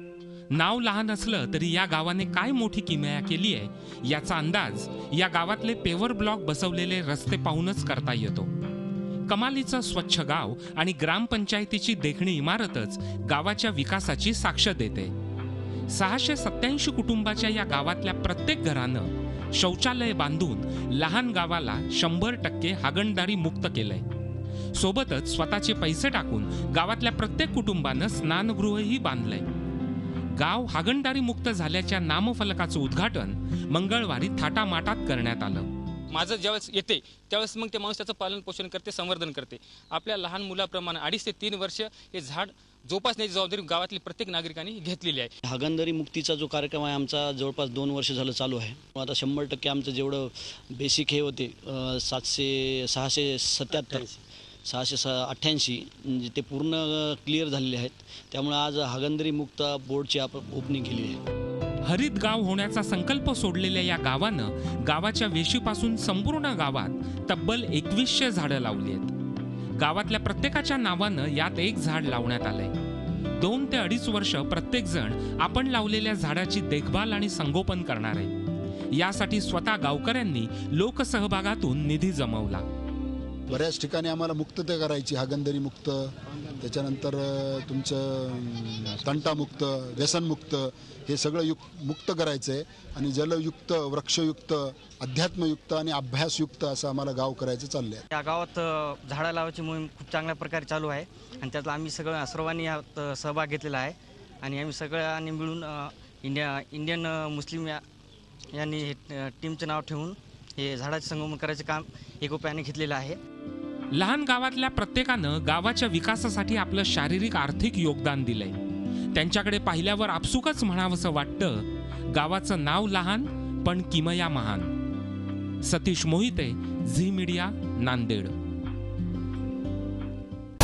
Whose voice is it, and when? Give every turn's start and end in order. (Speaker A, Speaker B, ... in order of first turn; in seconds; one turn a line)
Speaker A: 0.5-8.5
Speaker A: 9.3-15.1
Speaker A: 15.9-24.0
Speaker A: 24.7-29.4
Speaker A: 30.4-35.7
Speaker B: 36.1-45.3
Speaker C: 45.5-54.1
Speaker C: 54.7-61.2
Speaker A: 61.8-69.1
Speaker A: 69.8-72.7
Speaker A: 73.4-78.3
Speaker A: 78.9-82.6
Speaker D: 83.5-98.0
Speaker E: 98.1-107.8
Speaker E: 108.5-113.2
Speaker A: 113.9-118.6
Speaker A: 119.1-124.7
Speaker A: 125.6-128.3